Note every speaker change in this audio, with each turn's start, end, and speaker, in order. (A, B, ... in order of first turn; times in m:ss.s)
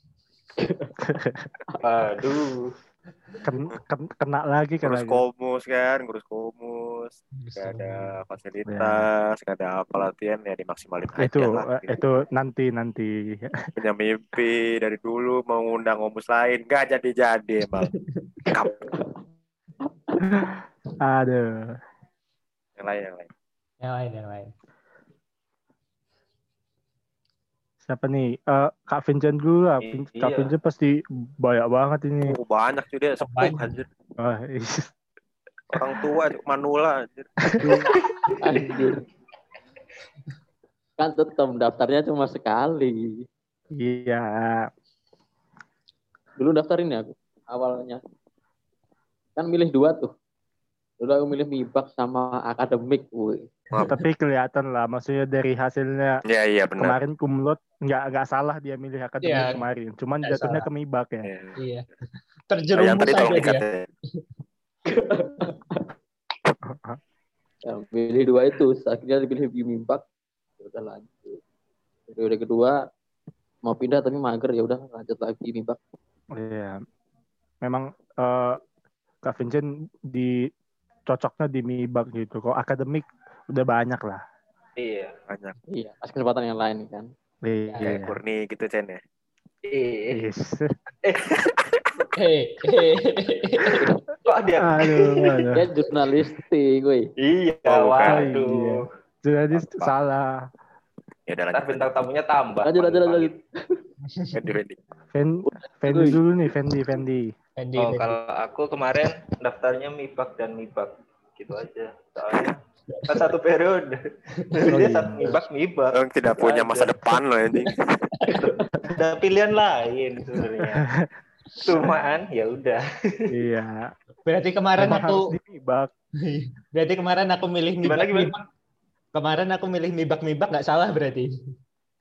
0:00.6-0:00.9 A
0:01.0-0:01.5 B
0:01.8-0:02.7 C
0:03.4-0:05.2 B
0:04.8-0:12.0 D
0:07.4-0:08.2 E
0:08.7-0:09.0 B
0:11.2-0:13.5 B
0:13.8-0:17.9 D
0:17.8-0:18.2 E
0:18.5-0:18.8 D
0:18.5-0:19.1 A
0:20.2-0:21.5 B
0:22.8-0:23.3 D
0:23.8-0:24.5 E
0:27.9-0:32.4 B
0:29.8-0:30.5 C
0:32.2-0:33.9 D
0:33.2-0:33.7 E
0:34.2-0:34.9 B
0:35.7-0:37.7 D
0:37.6-0:39.0 A
0:41.0-0:43.2 A
0:43.8-0:44.7 B
0:46.4-0:48.0 A
0:49.4-0:50.1 A
0:51.0-0:53.5 A
0:53.9-0:56.2 B
0:56.2-0:57.0 D
0:56.8-1:01.3 B
0:59.2-0:59.6 E
1:00.2-1:00.7 E
1:01.2-1:01.6 D
1:01.6-1:01.9 E
1:02.5-1:03.7 E
1:02.8-1:03.9 D
1:04.9-1:05.9 A
1:06.6-1:07.0 B
1:07.6-1:10.0 A
1:10.6-1:11.4 A
1:12.1-1:12.8 A
1:13.6-1:15.8 A
1:16.4-1:16.8 B
1:17.6-1:18.6 B
1:19.2-1:20.5 B
1:21.1-1:24.2 B
1:24.8-1:25.2 C
1:25.3-1:25.6 D
1:25.7-1:27.1 A
1:27.4-1:28.2 B
1:27.7-1:28.0 E
1:27.8-1:29.0 D
1:29.6-1:30.2 C
1:30.1-1:30.7 B
1:31.0-1:31.3 C
1:31.2-1:32.1 D
1:32.1-1:33.8 E
1:33.7-1:34.0 A
1:34.2-1:35.5 C
1:34.6-1:35.7 B
1:35.6-1:37.1 A
1:37.2-1:38.9 C
1:37.6-1:38.3 D
1:38.0-1:40.4 B
1:39.5-1:39.9 D
1:41.3-1:41.9 D
1:41.5-1:43.4 C
1:42.6-1:43.8 A
1:44.0-1:44.4 E
1:44.3-1:44.8 D
1:45.1-1:47.3 B
1:45.5-1:46.2 A
1:47.6-1:48.2 E
1:47.8-1:57.2 C
1:54.7-1:55.4 B
1:55.9-1:58.0 D
1:58.1-1:58.5 E
1:58.4-1:58.6 A
1:58.4-2:00.8 C
2:00.7-2:01.1 B
2:01.6-2:03.3 C
2:03.3-2:03.9 B
2:04.2-2:05.4 E
2:04.8-2:05.9 B
2:06.2-2:08.4 E
2:07.8-2:08.4 C
2:09.1-2:11.3 E